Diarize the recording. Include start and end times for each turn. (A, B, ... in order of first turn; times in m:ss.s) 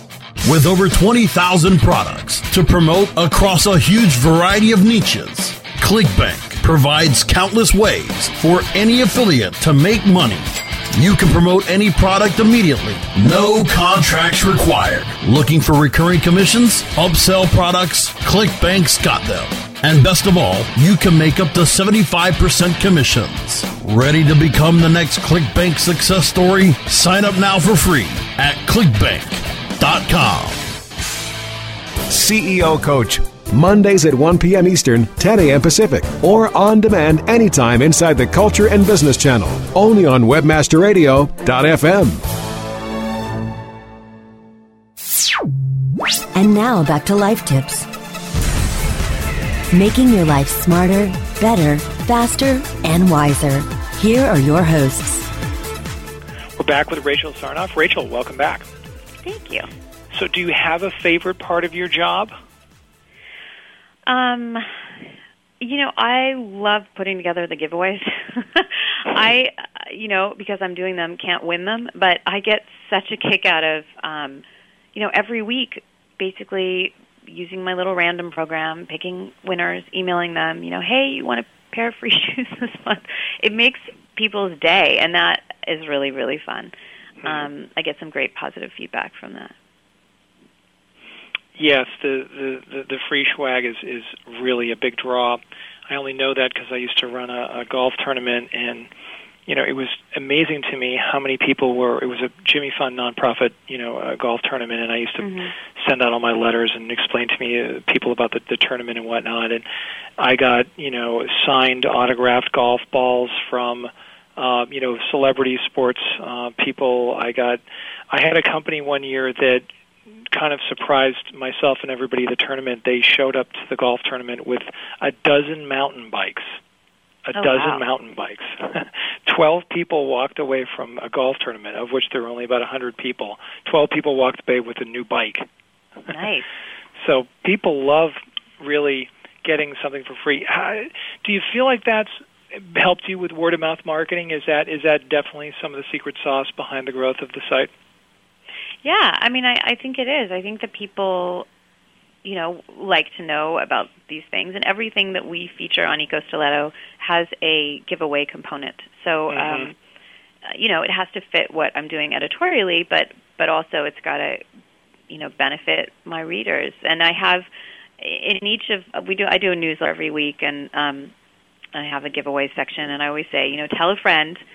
0:00.4-0:30.7 A
0:32.1-0:42.2 B
0:46.3-0:47.9 C
0:49.7-0:55.3 C
0:56.6-0:58.7 D
0:59.2-0:59.7 E
1:00.1-1:02.3 D
1:04.1-1:04.8 E
1:05.6-1:14.4 E
1:15.0-1:29.5 E
1:31.6-1:38.9 D
1:39.5-1:49.6 D
1:45.2-1:45.5 E
1:50.2-1:59.7 D
2:00.3-2:06.6 D
2:07.3-2:15.5 D
2:07.3-2:07.8 E
2:16.1-2:16.5 E
2:17.0-2:27.7 D
2:28.8-2:31.5 E
2:32.2-2:39.8 E
2:39.3-2:39.7 D
2:40.4-2:44.4 E
2:45.1-2:47.5 E
2:48.0-2:51.1 E
2:51.7-2:54.4 E